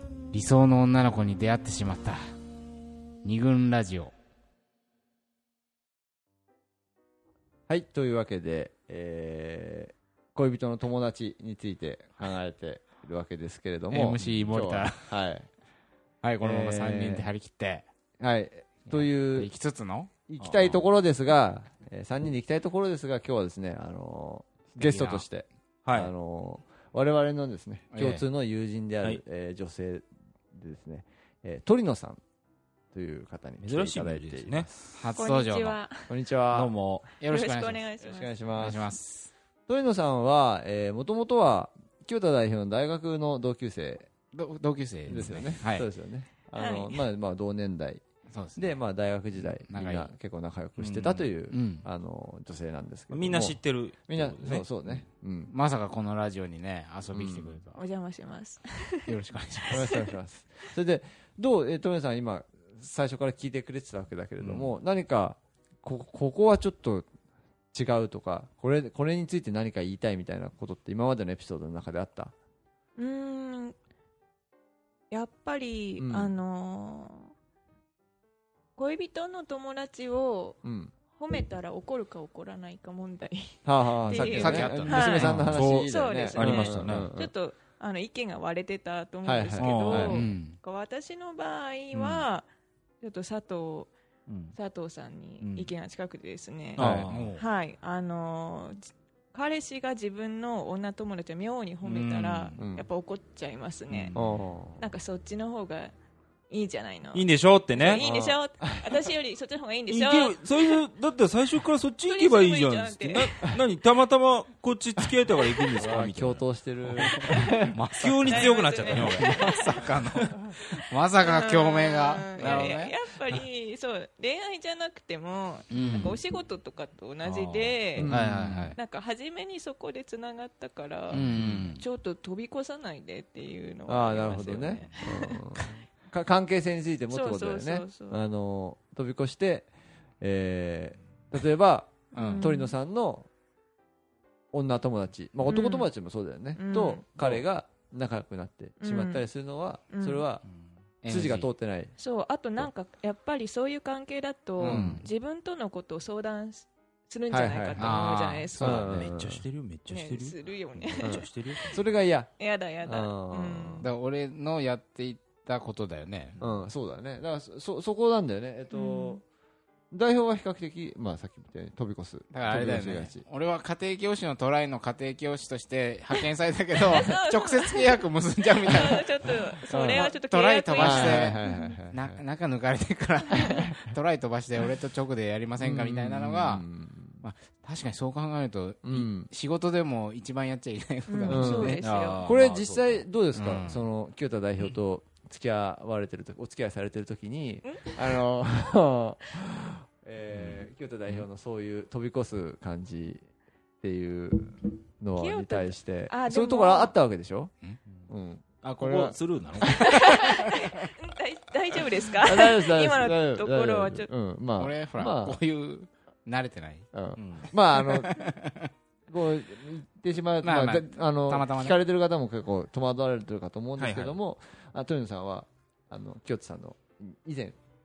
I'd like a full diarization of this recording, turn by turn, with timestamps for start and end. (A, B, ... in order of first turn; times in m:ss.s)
0:00.3-0:02.2 A
0:03.2-0:04.1 A
0:07.7-0:15.5 B
0:13.9-0:15.2 A
0:16.2-0:17.9 A
0:16.4-0:17.3 B
0:18.2-0:19.5 B
0:18.9-0:20.1 A
0:20.3-0:32.2 B
0:20.4-0:20.8 C
0:24.8-0:25.3 A
0:25.8-0:26.1 C
0:27.9-0:28.2 A
0:32.9-0:34.7 B
0:33.6-0:34.9 C
0:35.0-0:35.8 A
0:35.2-0:36.1 D
0:36.1-0:36.7 B
0:36.5-0:37.1 C
0:37.2-0:37.9 A
0:37.2-0:38.3 D
0:38.0-0:38.9 B
0:38.6-0:39.3 A
0:39.7-0:44.1 B
0:44.3-0:45.9 A
0:45.1-0:48.0 B
0:46.6-0:47.0 D
0:48.3-0:48.8 A
0:48.6-0:55.5 B
0:49.7-0:50.1 A
0:50.8-0:51.3 C
0:51.5-0:51.9 A
0:53.1-0:55.0 C
0:55.5-0:57.8 A
0:57.1-0:57.6 B
0:57.8-0:59.1 D
0:59.1-0:59.9 A
0:59.7-1:00.1 D
0:59.7-1:07.1 B
1:04.4-1:04.7 C
1:07.7-1:12.3 B
1:13.0-1:13.8 D
1:15.1-1:17.3 D
1:16.0-1:16.3 B
1:18.8-1:20.6 D
1:20.6-1:20.9 B
1:21.1-1:32.5 D
1:23.6-1:27.3 B
1:24.1-1:25.5 A
1:25.5-1:27.1 C
1:29.2-1:30.2 B
1:29.6-1:30.2 C
1:30.1-1:30.6 A
1:31.9-1:32.2 C
1:33.0-1:33.9 D
1:34.3-1:34.6 C
1:34.5-1:44.2 D
1:35.4-1:35.7 C
1:36.8-1:37.1 B
1:36.8-1:37.4 C
1:37.1-1:37.4 A
1:41.8-1:42.6 C
1:42.6-1:42.9 B
1:43.9-1:44.4 C
1:44.2-1:44.9 B
1:44.8-1:45.9 D
1:46.5-1:50.8 D
1:47.1-1:48.0 C
1:47.9-1:48.9 B
1:49.9-1:57.1 C
1:52.1-1:53.4 D
1:55.8-1:57.8 B
1:57.0-2:03.0 A
1:58.0-1:59.6 C
1:58.3-1:59.7 D
2:01.2-2:08.1 D
2:05.7-2:06.2 A
2:07.2-2:07.8 C
2:08.0-2:08.7 B
2:08.0-2:08.8 A
2:08.8-2:15.7 D
2:11.1-2:11.8 A
2:11.2-2:11.7 B
2:13.9-2:19.7 B
2:17.1-2:18.2 D
2:20.2-2:23.3 B
2:22.1-2:22.5 A
2:22.2-2:22.7 D
2:24.5-2:30.4 B
2:25.5-2:25.9 D
2:26.6-2:27.0 D
2:28.8-2:29.2 D
2:29.9-2:30.2 D
2:31.0-2:31.5 A
2:31.1-2:31.9 B
2:32.0-2:38.9 D
2:34.6-2:35.0 A
2:34.6-2:35.1 B
2:37.3-2:38.0 B
2:37.8-2:39.0 A
2:37.8-2:38.1 C
2:38.6-2:39.4 B
2:38.9-2:41.8 C
2:39.9-2:41.8 D
2:41.0-2:42.3 B
2:42.4-2:43.9 D
2:42.8-2:43.9 B
2:43.8-2:46.4 A
2:46.4-2:49.2 B
2:48.7-2:49.2 D
2:49.9-2:53.2 B
2:52.3-2:59.1 A
2:56.9-2:58.0 D
2:58.7-3:01.8 D
2:59.7-3:00.1 B
2:59.9-3:06.7 A
3:00.8-3:02.2 B
3:03.4-3:03.8 B
3:05.6-3:07.2 B
3:07.2-3:11.8 A
3:08.8-3:09.3 B
3:11.1-3:12.2 D
3:11.3-3:23.2 B
3:11.8-3:13.0 C
3:13.3-3:13.8 A
3:17.6-3:18.0 D
3:20.3-3:21.2 C
3:23.8-3:27.5 B
3:25.2-3:26.9 D
3:28.1-3:29.2 B
3:28.6-3:30.0 C
3:29.6-3:30.6 A
3:29.7-3:34.1 D
3:32.2-3:35.4 B
3:34.6-3:36.9 A
3:36.9-3:38.3 B
3:37.2-3:37.5 C
3:37.7-3:38.7 A
3:39.1-3:47.6 B
3:40.4-3:41.8 A
3:43.8-3:44.2 C